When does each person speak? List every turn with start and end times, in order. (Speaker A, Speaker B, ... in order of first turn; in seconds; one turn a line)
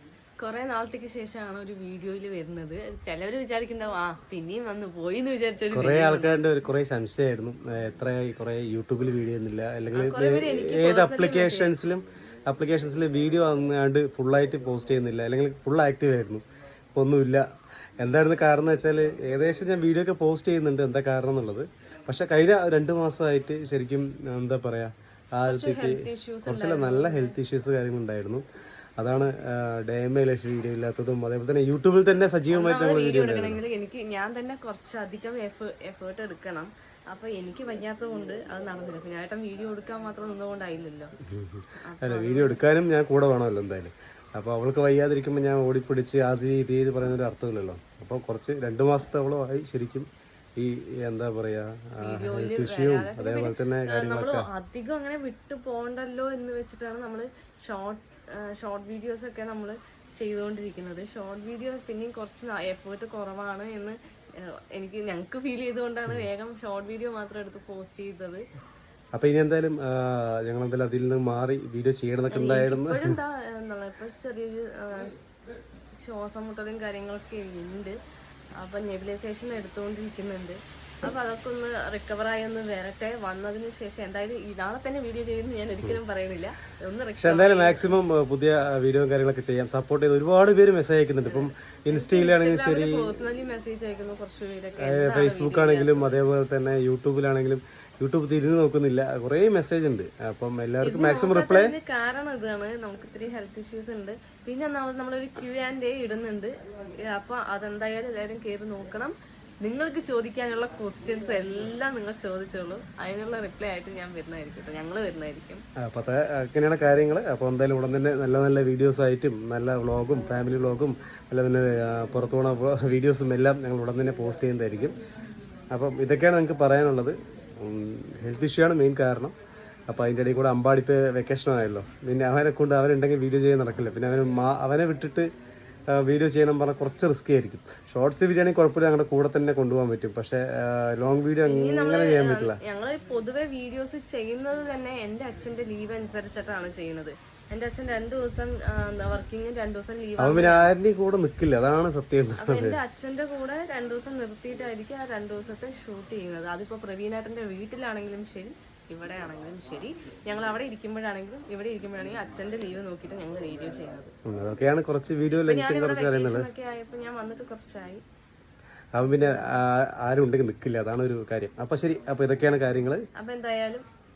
Speaker A: 0.4-6.4
Speaker B: 5.7-16.4
Speaker A: 9.9-11.7
Speaker B: 16.9-17.4
Speaker B: 18.0-28.4
Speaker A: 25.4-27.4
Speaker B: 29.0-33.6
Speaker A: 32.5-41.1
Speaker B: 41.3-54.5
Speaker A: 41.8-42.6
Speaker A: 52.0-68.4
Speaker B: 69.1-73.1
Speaker A: 72.3-75.1
Speaker A: 76.0-77.9
Speaker A: 78.6-87.9
Speaker B: 87.2-93.1
Speaker A: 91.2-96.1
Speaker B: 94.8-101.7
Speaker A: 100.8-106.5
Speaker A: 107.0-109.1
Speaker A: 109.6-115.6
Speaker B: 115.8-125.0
Speaker B: 125.7-129.3
Speaker B: 129.9-135.3
Speaker B: 135.9-142.6
Speaker A: 141.4-150.7
Speaker B: 150.2-152.8
Speaker A: 152.4-164.1
Speaker B: 164.2-166.5
Speaker A: 165.5-168.0
Speaker B: 168.9-173.0
Speaker A: 169.0-169.6
Speaker A: 173.2-173.8